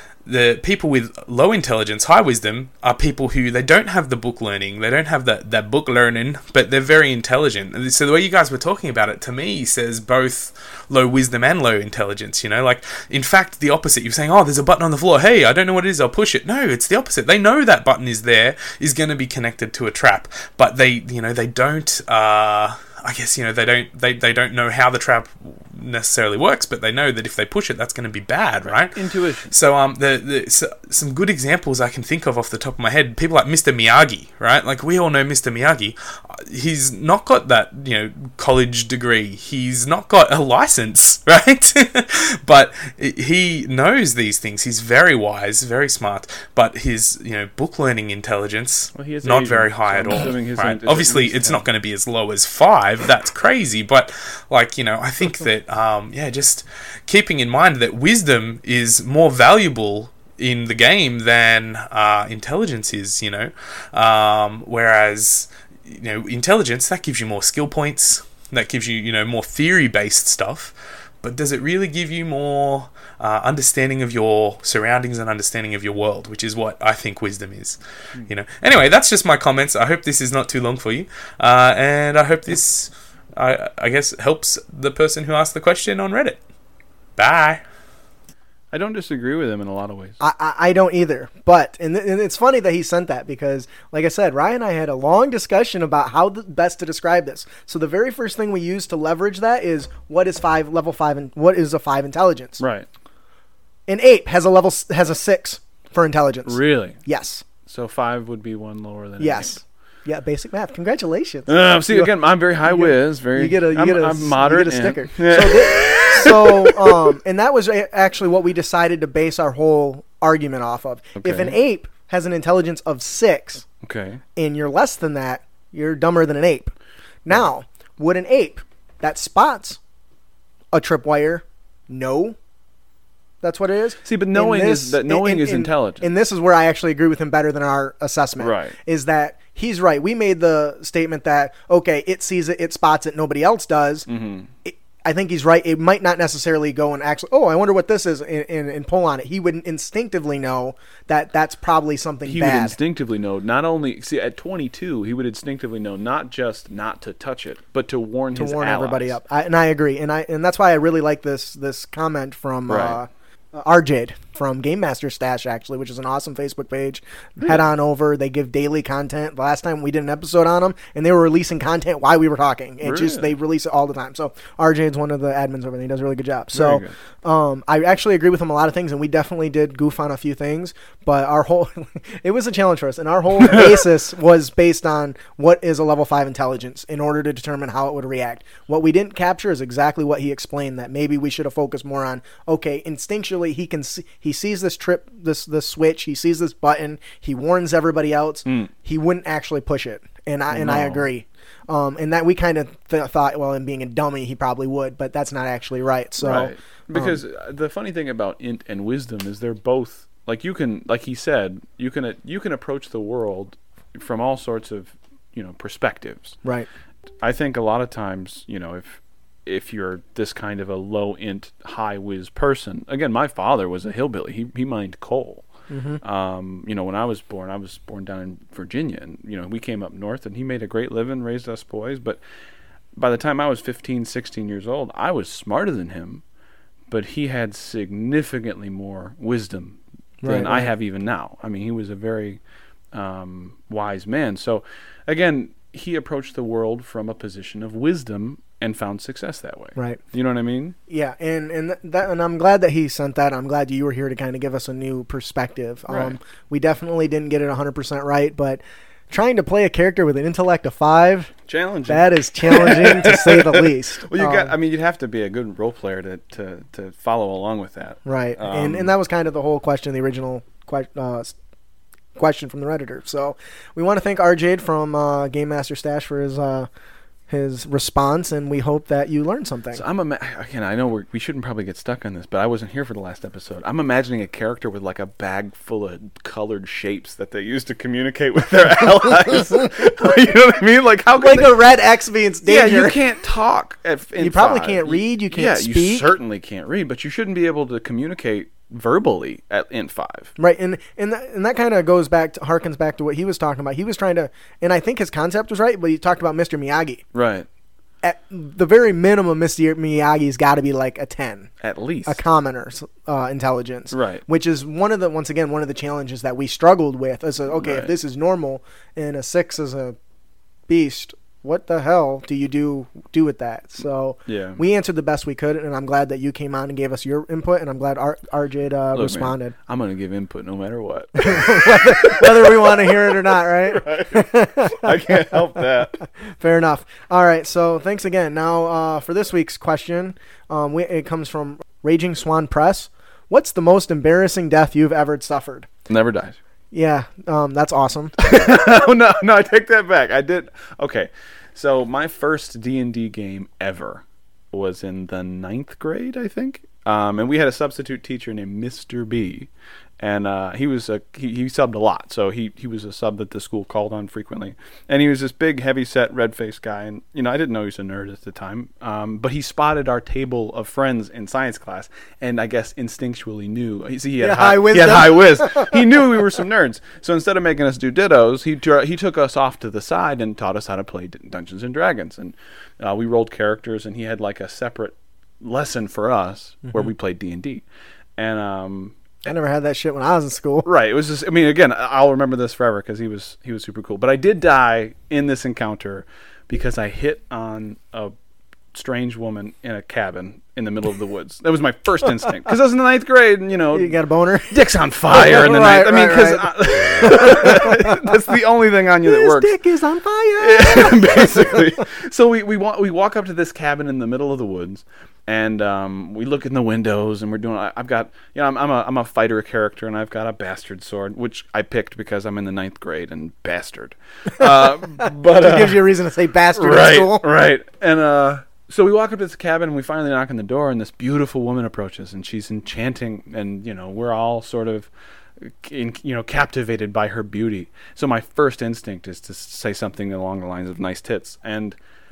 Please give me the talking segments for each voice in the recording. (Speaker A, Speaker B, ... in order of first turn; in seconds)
Speaker A: 0.2-29.0, 29.5-86.4, 87.2-87.6
Speaker B: 28.6-29.5, 48.9-51.7, 88.7-90.2, 102.6-102.9, 106.5-107.0, 107.7-109.5, 111.5-117.1, 121.2-121.5, 123.8-124.2, 134.0-136.1, 138.4-138.8, 144.1-144.5, 152.2-159.2, 162.7-163.0, 172.8-173.3, 176.5-176.9, 183.4-183.8, 198.4-198.7, 200.5-201.1, 206.2-216.4, 217.2-225.4, 226.0-232.2, 232.9-236.2, 236.9-242.4, 242.9-250.8, 255.9-256.2, 261.5-268.9, 279.7-291.6, 292.4-300.3, 307.1-307.5, 311.6-312.2, 313.9-314.2, 317.5-317.9, 324.2-324.6, 328.9-336.0, 345.9-346.4, 348.2-387.6, 388.2-388.9, 390.6-398.1, 398.7-404.0, 404.5-409.6, 410.4-425.9, 426.5-441.8
Speaker C: 90.2-102.6, 103.9-107.4, 109.2-123.7, 124.3-126.7, 127.2-129.8, 130.7-132.4, 133.4-144.1, 144.6-152.8, 158.3-207.2, 225.7-226.0, 240.2-240.7, 249.8-250.0, 250.9-261.3, 261.9-264.5, 268.0-271.3, 272.1-276.7, 277.3-279.8, 291.2-293.0, 294.2-296.1, 300.4-307.0, 308.0-311.5, 312.1-320.0, 320.7-329.5, 331.2-335.4, 336.3-345.7, 346.7-348.2, 374.2-375.8, 389.2-390.7, 403.7-408.2, 409.0-411.7, 424.3-427.3